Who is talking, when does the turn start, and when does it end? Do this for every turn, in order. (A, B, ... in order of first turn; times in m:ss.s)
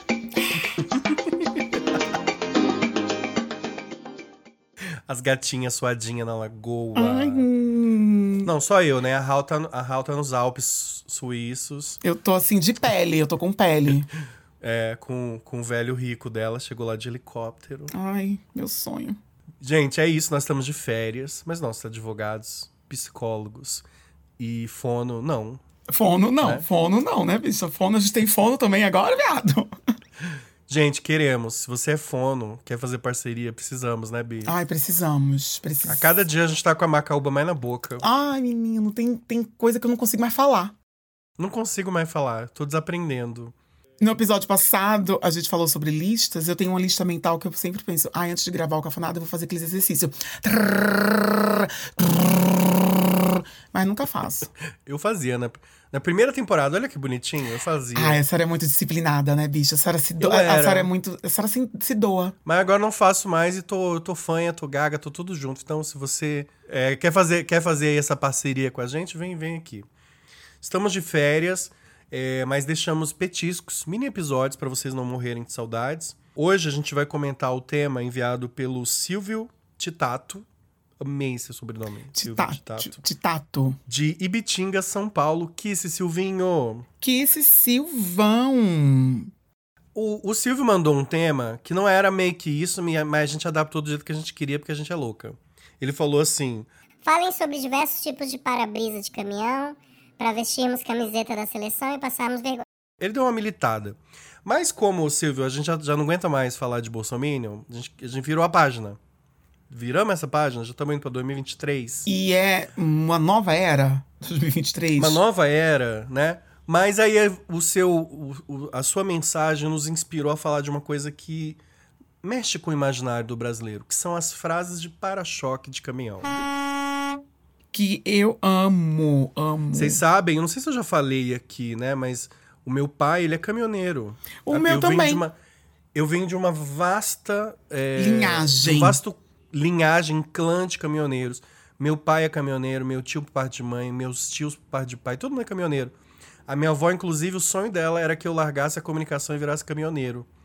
0:00.5-0:00.8 A
0:05.0-0:07.5 B
0:06.9-0:08.5 A
0:08.4-0:12.0 B
0:12.0-0:14.1 A
0:14.6-0:17.9 B
0:17.9-0:19.2 A
0:19.6-0:23.8 B
0:24.4-0:25.6 B
0:25.9-0:29.7 A
0:26.4-0:26.6 B
0:30.7-0:34.5 B
0:34.4-0:36.2 A
0:35.8-0:38.1 B
0:38.0-0:40.7 A
0:41.4-0:43.5 B
0:44.0-0:54.5 A
0:54.8-0:58.2 B
0:57.9-1:02.4 A
1:00.2-1:00.9 B
1:02.4-1:09.8 B
1:10.6-1:20.4 B
1:21.0-1:23.0 B
1:22.1-1:23.8 A
1:23.9-1:26.8 B
1:27.0-1:29.3 A
1:29.9-1:36.7 B
1:37.0-1:42.6 C
1:43.0-1:49.0 B
1:49.7-1:52.1 B
1:52.0-1:55.2 A
1:55.0-2:01.6 B
2:02.2-2:06.4 B
2:07.7-2:10.0 A
2:09.7-2:15.3 B
2:14.4-2:15.3 A
2:15.9-2:25.9 B
2:17.9-2:19.0 A
2:26.5-2:30.3 B